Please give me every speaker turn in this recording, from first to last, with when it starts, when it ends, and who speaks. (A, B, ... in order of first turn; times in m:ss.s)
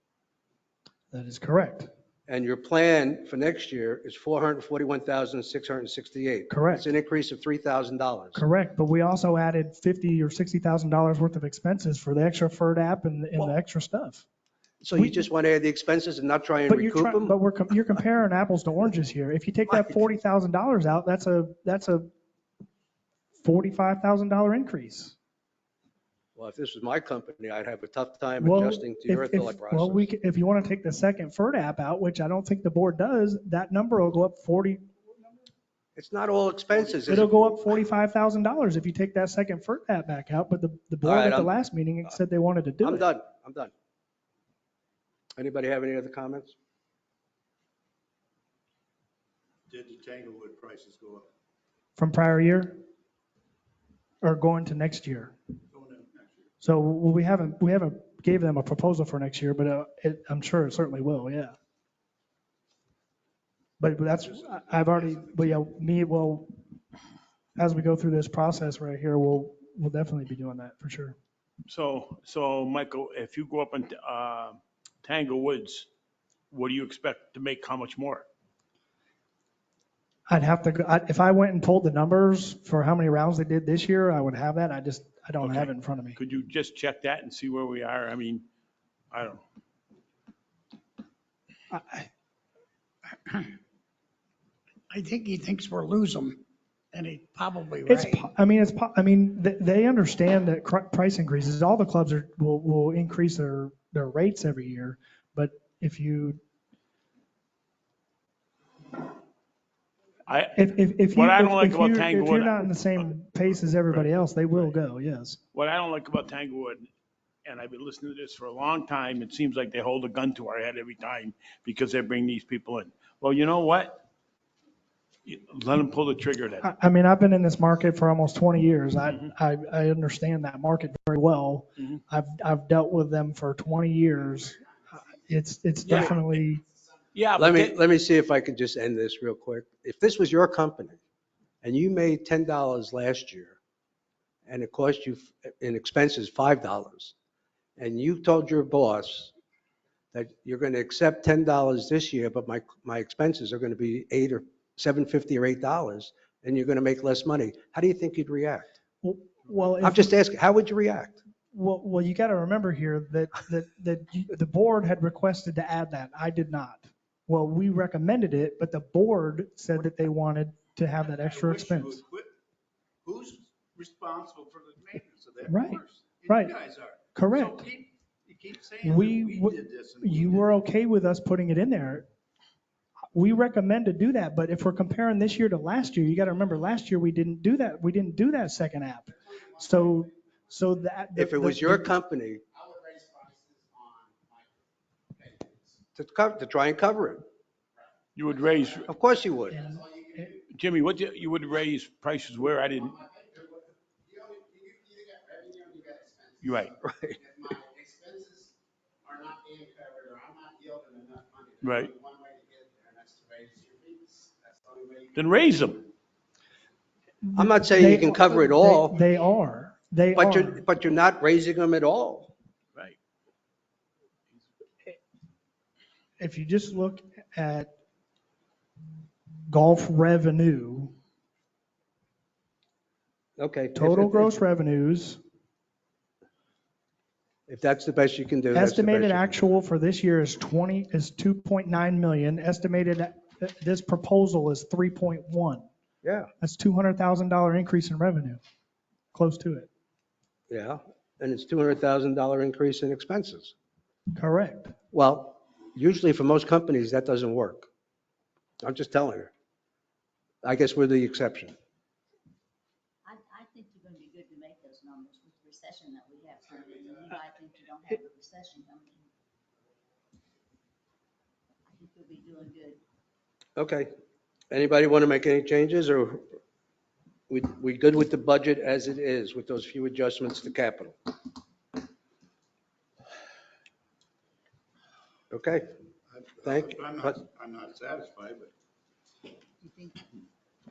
0:01.1-0:01.9 A
0:02.3-0:08.4 B
0:06.5-0:06.9 A
0:08.4-0:14.3 A
0:14.8-0:17.4 B
0:15.0-0:15.3 A
0:16.7-0:22.1 A
0:19.7-0:20.0 B
0:23.4-0:25.2 A
0:26.4-0:30.1 B
0:28.4-0:34.9 A
0:36.0-0:37.5 B
0:37.1-0:43.1 A
0:41.0-0:41.5 B
0:42.8-0:43.7 B
0:45.4-0:46.6 B
0:49.7-0:51.3 C
0:52.0-0:52.8 A
0:54.2-0:55.4 A
0:55.7-0:56.5 C
0:56.6-1:01.6 A
1:03.8-1:06.5 A
1:07.6-1:11.2 A
1:11.7-1:15.9 D
1:16.5-1:18.3 D
1:20.3-1:26.2 A
1:25.4-1:28.5 D
1:29.1-1:29.4 D
1:31.7-1:32.1 A
1:34.9-1:36.4 E
1:36.9-1:38.3 E
1:37.9-1:46.4 A
1:50.3-1:53.1 D
1:50.6-1:55.4 A
1:53.7-1:54.7 D
1:55.5-1:56.9 D
1:57.4-2:04.0 D
2:05.2-2:06.7 D
2:06.6-2:14.6 A
2:15.2-2:16.6 A
2:15.8-2:16.2 D
2:15.9-2:16.1 B
2:17.1-2:17.8 D
2:17.4-2:21.0 B
2:21.6-2:23.6 B
2:24.5-2:27.1 B
2:27.8-2:29.3 B
2:30.1-2:38.7 B
2:39.0-2:40.1 A
2:39.8-2:41.2 B
2:41.5-2:52.0 A
2:51.1-2:52.4 C
2:53.0-3:00.5 C
2:55.5-2:56.6 A
2:57.1-2:57.6 A
2:58.8-3:02.1 A
3:03.1-3:12.0 A
3:09.4-3:09.7 F
3:11.2-3:12.4 B
3:12.6-3:15.8 F
3:16.0-3:17.2 B
3:18.2-3:18.9 D
3:18.6-3:18.8 F
3:18.9-3:19.6 B
3:19.5-3:20.4 F
3:20.5-3:23.0 D
3:22.9-3:35.2 F
3:26.4-3:26.7 D
3:26.8-3:27.2 B
3:31.6-3:31.9 D
3:35.1-3:35.8 D
3:37.3-3:40.6 A
3:37.4-3:39.0 B
3:40.2-3:42.3 B
3:46.2-3:47.7 A
3:49.5-3:50.9 A
3:53.4-3:54.4 B
3:53.8-3:55.2 A
3:57.5-3:59.4 B
3:58.5-4:05.7 A
4:06.0-4:06.3 B
4:06.4-4:08.4 A
4:09.1-4:09.7 A
4:10.5-4:13.5 B
4:14.2-4:14.8 A
4:14.9-4:17.7 B
4:18.6-4:19.3 B
4:20.4-4:21.6 B
4:23.0-4:29.1 G
4:31.7-4:32.8 G
4:33.6-4:33.9 B
4:34.5-4:36.3 B
4:37.3-4:41.0 B
4:45.3-4:45.7 B
4:46.1-4:48.5 C
4:46.4-4:47.2 B
4:49.6-4:50.0 G